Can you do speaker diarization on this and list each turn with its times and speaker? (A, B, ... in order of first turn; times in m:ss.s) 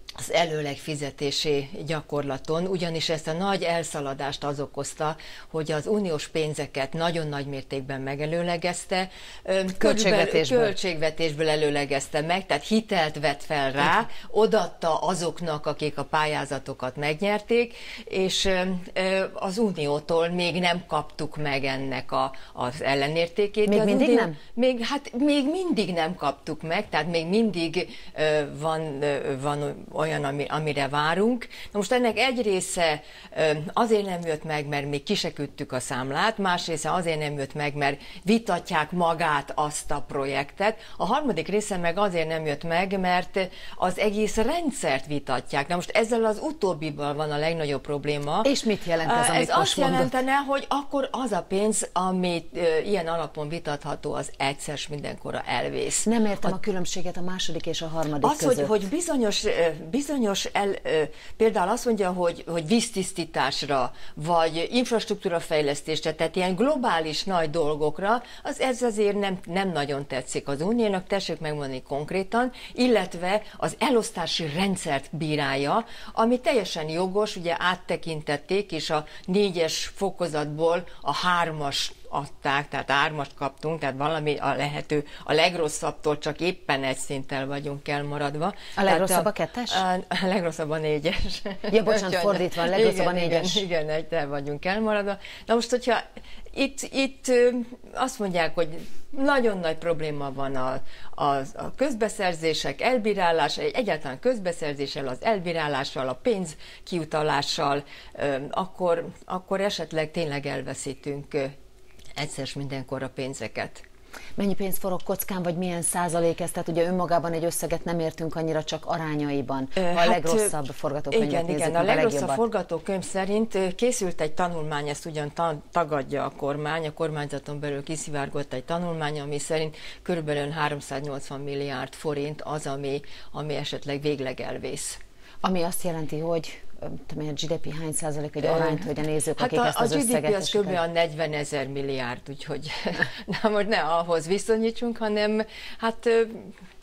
0:00.2-0:48.5 A
0:09.8-0:10.7 B
0:23.6-0:24.4 B
0:48.4-0:50.1 B
0:49.0-0:56.5 A
0:56.0-0:58.7 B
0:58.2-1:51.5 A
1:28.8-1:29.8 B
1:31.7-1:33.6 B
1:52.2-1:53.8 A
1:54.4-2:02.4 B
1:59.8-2:00.6 A
2:01.1-2:15.0 A
2:15.4-2:20.8 B
2:18.4-2:26.5 A